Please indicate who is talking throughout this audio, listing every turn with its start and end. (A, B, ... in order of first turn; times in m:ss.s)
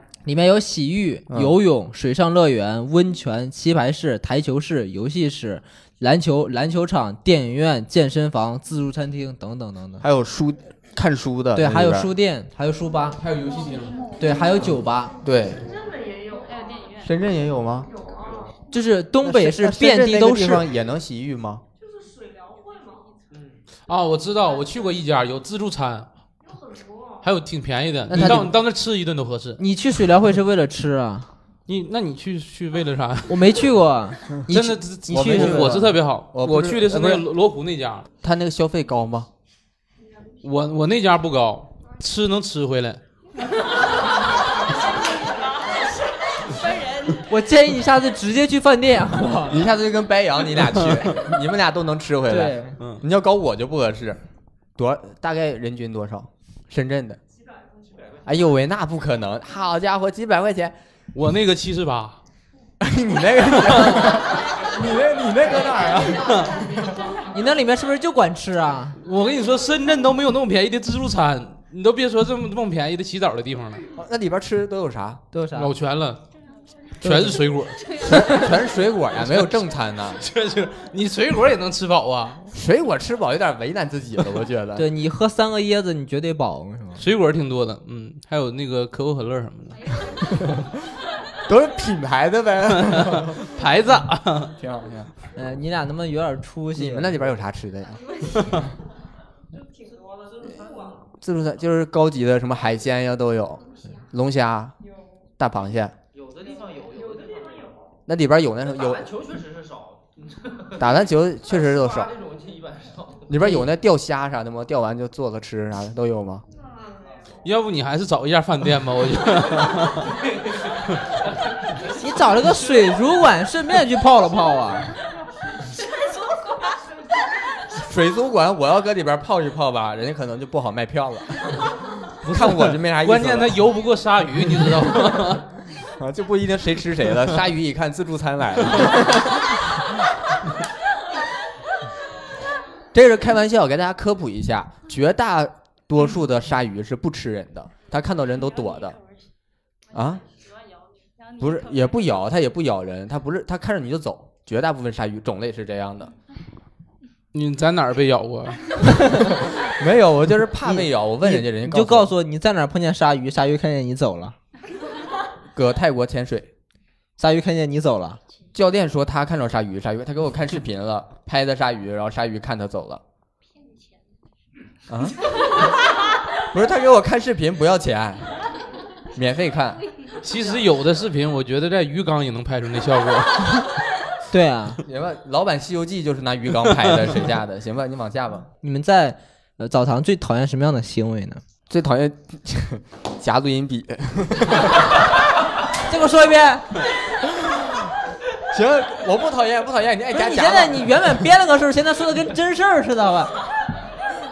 0:00.2-0:10.0 A
0:10.0-0:12.1 B
0:11.5-0:13.2 A
0:13.2-0:14.2 C
0:13.4-0:14.4 D
0:14.2-0:15.2 A
0:15.2-0:15.7 B
0:15.6-0:17.1 D
0:17.0-0:17.9 B
0:17.9-0:18.5 D
0:18.7-0:20.6 A
0:19.2-0:21.6 B
0:21.8-0:23.2 D
0:23.3-0:23.6 E
0:23.9-0:26.1 C
0:24.6-0:24.9 D
0:26.4-0:27.3 D
0:27.2-0:29.6 C
0:28.1-0:28.5 B
0:29.6-0:31.3 A
0:31.7-0:33.6 C
0:33.3-0:35.8 A
0:34.5-0:38.1 C
0:35.1-0:37.2 B
0:38.2-0:39.3 B
0:40.4-0:43.0 C
0:43.4-0:47.3 D
0:47.3-0:49.6 A
0:49.4-0:54.2 B
0:50.7-0:51.1 C
0:52.3-0:52.8 A
0:54.8-0:57.2 B
0:58.2-1:00.8 B
1:01.1-1:02.2 C
1:02.8-1:07.1 B
1:03.5-1:04.2 C
1:05.7-1:07.3 D
1:06.2-1:06.5 C
1:07.3-1:09.0 A
1:09.0-1:13.8 C
1:14.0-1:15.2 B
1:15.3-1:15.7 A
1:15.5-1:16.2 C
1:17.0-1:17.4 A
1:17.0-1:17.9 C
1:17.7-1:18.7 D
1:18.0-1:20.2 B
1:19.2-1:19.6 C
1:20.2-1:22.5 C
1:22.5-1:24.9 B
1:24.8-1:27.0 A
1:27.0-1:30.0 C
1:29.7-1:30.6 D
1:31.4-1:33.4 B
1:32.8-1:34.5 C
1:34.6-1:35.1 B
1:35.3-1:37.3 A
1:36.8-1:38.6 B
1:38.0-1:38.7 D
1:39.5-1:41.0 D
1:40.4-1:41.0 E
1:41.2-1:44.7 B
1:44.8-1:45.1 D
1:45.4-1:45.9 B
1:46.1-1:47.7 E
1:46.4-1:47.9 D
1:48.0-1:49.1 B
1:48.7-1:50.9 E
1:50.8-1:52.1 B
1:51.5-1:53.3 E
1:53.3-1:56.4 B
1:53.4-1:53.7 A
1:56.5-1:57.4 D
1:57.4-2:00.1 C
2:00.1-2:00.7 E
2:01.9-2:04.9 A
2:05.0-2:07.7 D
2:07.8-2:11.6 B
2:12.2-2:15.5 C
2:12.2-2:13.6 B
2:15.9-2:19.6 B
2:22.9-2:29.0 B
2:28.5-2:29.2 D
2:29.9-2:32.0 D
2:29.9-2:30.2 B
2:31.4-2:36.1 B
2:37.3-2:38.8 C
2:38.8-2:39.3 A
2:39.6-2:42.1 B
2:40.6-2:44.4 A
2:45.5-2:46.5 B
2:47.2-2:48.2 A
2:48.5-2:53.0 B
2:54.9-2:55.3 B
2:56.5-2:58.2 B
2:59.1-2:59.8 B
3:00.2-3:03.6 C
3:04.3-3:04.8 A
3:04.8-3:08.5 B
3:08.6-3:11.4 A
3:11.7-3:15.0 B
3:15.8-3:16.7 A
3:17.5-3:17.7 B
3:18.5-3:21.1 B
3:20.1-3:23.3 A